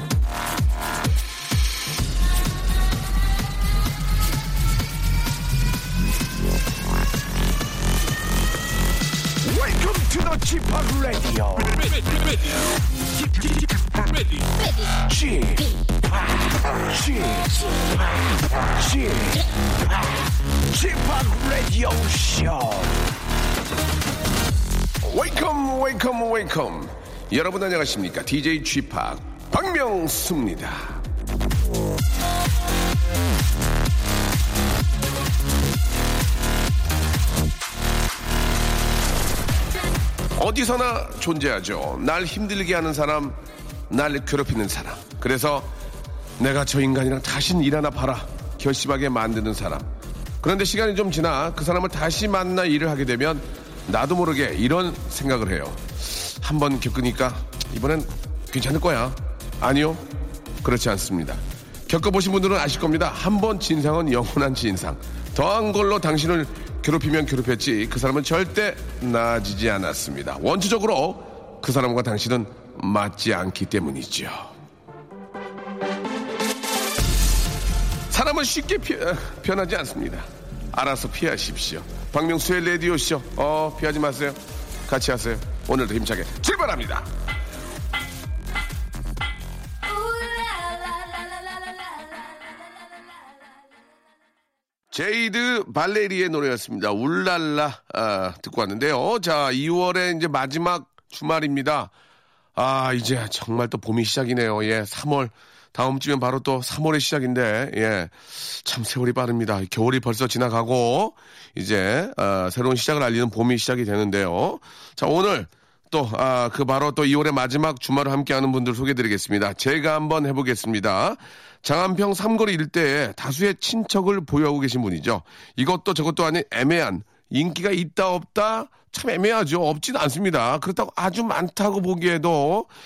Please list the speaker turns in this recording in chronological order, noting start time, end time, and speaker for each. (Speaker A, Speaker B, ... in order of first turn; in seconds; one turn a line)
Speaker A: 9.4-12.4
Speaker A: 13.0-23.1
Speaker A: 25.0-31.0
Speaker A: 40.4-45.7
Speaker A: 46.4-49.9
Speaker A: 50.4-60.0
Speaker A: 60.6-74.5
Speaker A: 78.1-87.1
Speaker A: 94.9-101.9
Speaker A: 102.5-132.7